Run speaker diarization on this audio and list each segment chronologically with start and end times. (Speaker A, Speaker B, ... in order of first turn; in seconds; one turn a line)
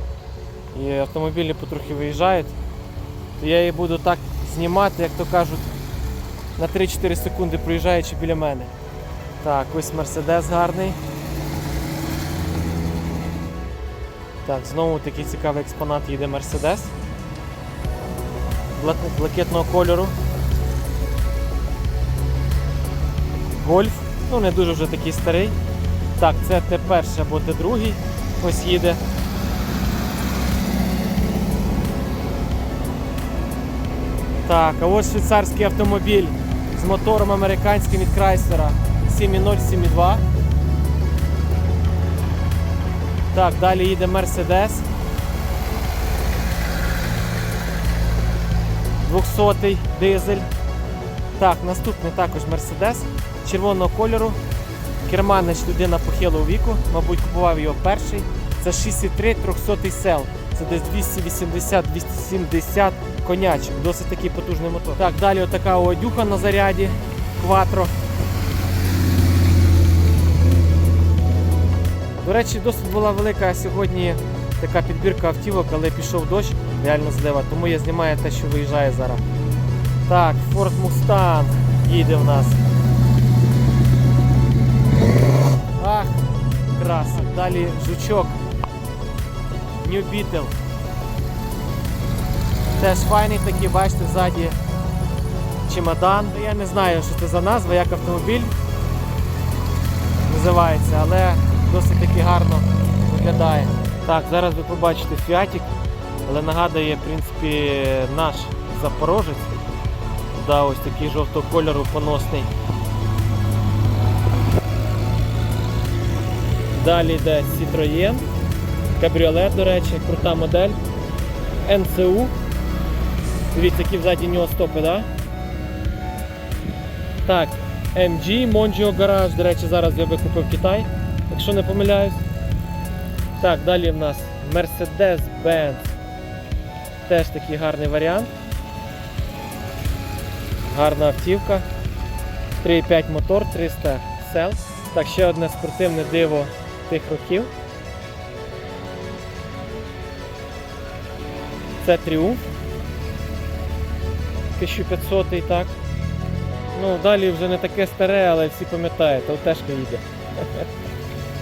Speaker A: 0.7-2.5
Speaker A: 3.4-5.7
Speaker A: 6.6-8.7
Speaker A: 9.4-11.0
Speaker A: 14.4-16.9
Speaker A: 18.7-20.1
Speaker A: 23.6-25.6
Speaker A: 26.1-29.0
Speaker A: 34.4-40.2
Speaker A: 43.3-44.9
Speaker A: 49.0-50.5
Speaker A: 51.4-54.4
Speaker A: 55.0-67.9
Speaker A: 72.2-79.2
Speaker A: 80.1-82.6
Speaker A: 85.8-86.2
Speaker A: 86.7-88.4
Speaker A: 89.8-90.5
Speaker A: 92.8-94.6
Speaker A: 95.7-98.5
Speaker A: 100.3-105.7
Speaker A: 106.2-109.5
Speaker A: 110.3-112.5
Speaker A: 116.7-118.2
Speaker A: 119.0-120.8
Speaker A: 121.6-122.3
Speaker A: 123.5-125.1
Speaker A: 127.2-132.2
Speaker A: 133.4-135.9
Speaker A: 137.0-138.3
Speaker A: 140.7-141.7
Speaker A: 142.6-147.5
Speaker A: 151.8-152.4
Speaker A: 154.6-155.7
Speaker A: 156.7-160.6